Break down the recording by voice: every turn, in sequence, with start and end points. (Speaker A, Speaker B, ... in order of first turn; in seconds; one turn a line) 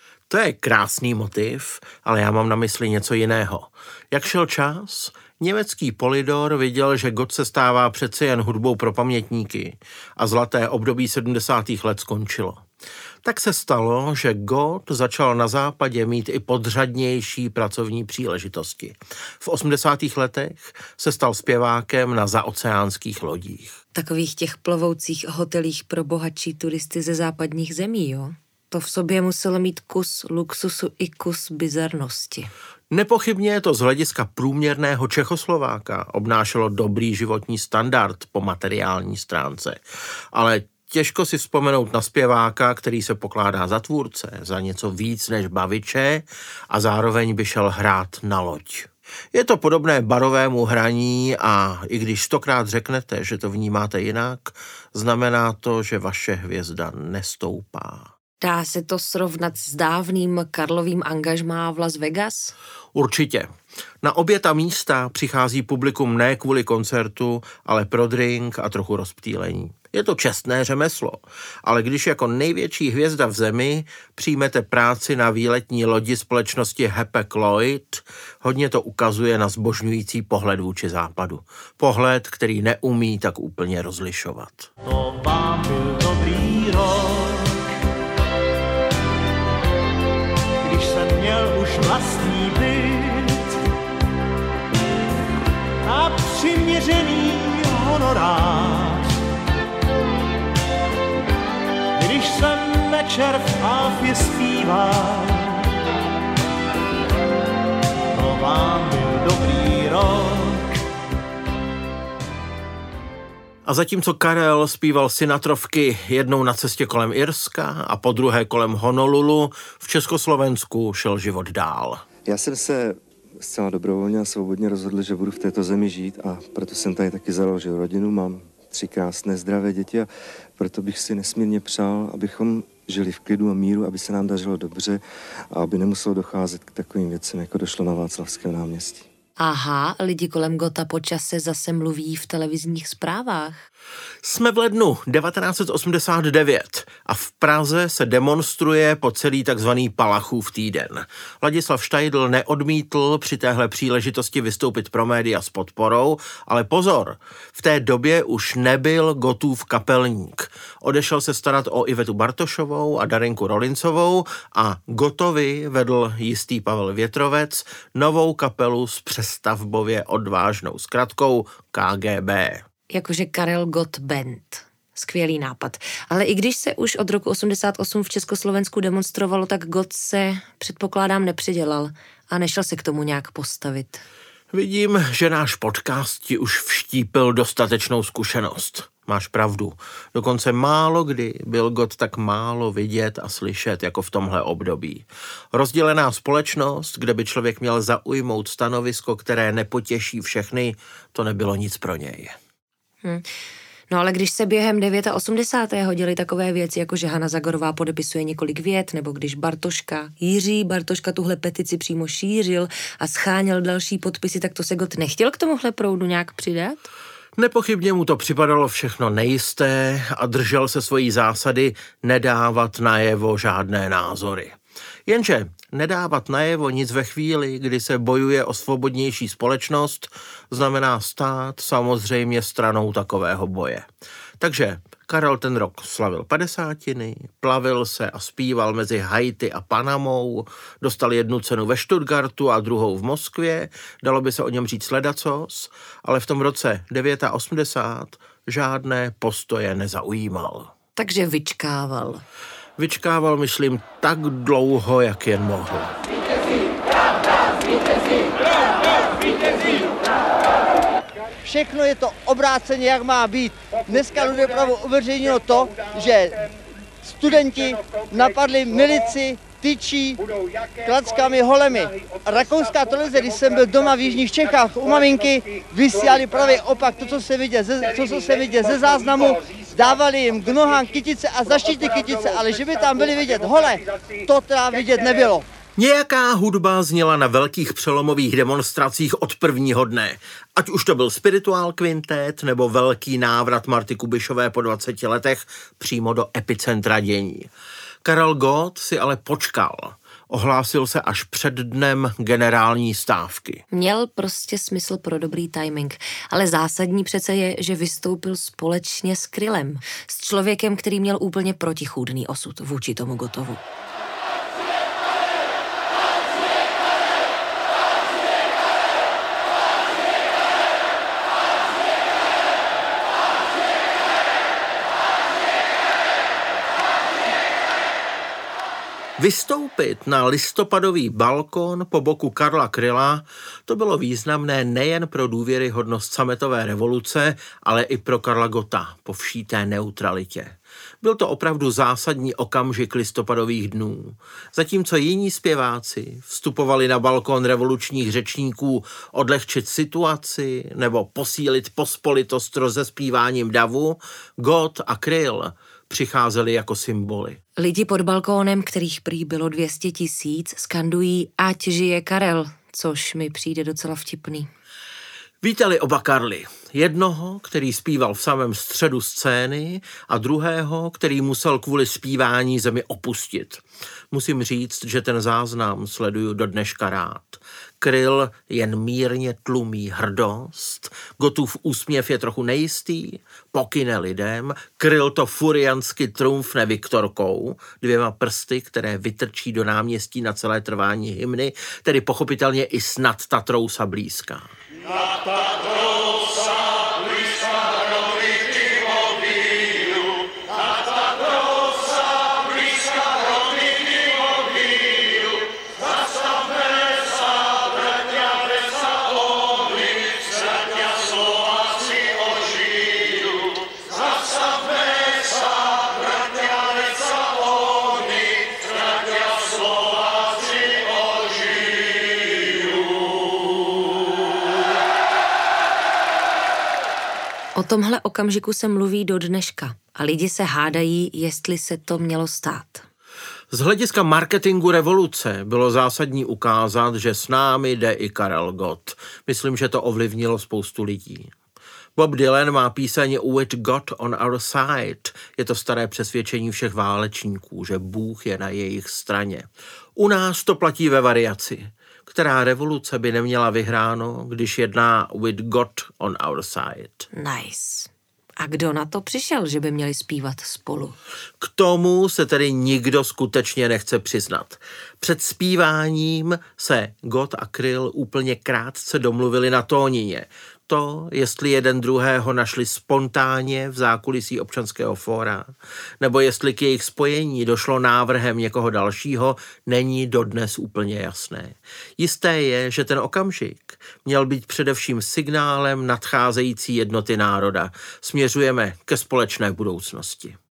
Speaker A: 0.3-12.6
Speaker A: 13.2-23.8
Speaker B: 23.9-32.5
Speaker A: 32.9-39.8
Speaker A: 40.3-58.1
Speaker B: 58.4-62.5
Speaker A: 62.9-63.5
Speaker A: 64.0-84.7
Speaker C: 84.8-87.5
Speaker C: 90.6-93.6
Speaker C: 95.8-99.2
Speaker C: 102.0-105.7
Speaker C: 108.1-110.6
Speaker A: 113.7-122.0
Speaker D: 122.2-135.0
Speaker D: 135.5-139.0
Speaker B: 139.4-143.7
Speaker A: 144.2-172.6
Speaker B: 172.9-184.0
Speaker A: 184.5-202.4
Speaker B: 203.9-216.9
Speaker A: 217.3-233.8
Speaker A: 234.4-250.7
Speaker B: 250.9-252.2
Speaker A: 252.8-255.9
Speaker E: 261.4-266.4
Speaker E: 267.0-270.2
Speaker E: 270.8-285.4
Speaker A: 285.8-297.5
Speaker A: 298.0-303.6
Speaker B: 303.7-313.6
Speaker A: 329.2-357.4
Speaker B: 357.6-364.5
Speaker A: 365.4-394.5
Speaker B: 427.6-432.8
Speaker A: 433.5-441.3
Speaker A: 441.9-457.1
Speaker B: 457.1-460.9
Speaker A: 461.4-490.4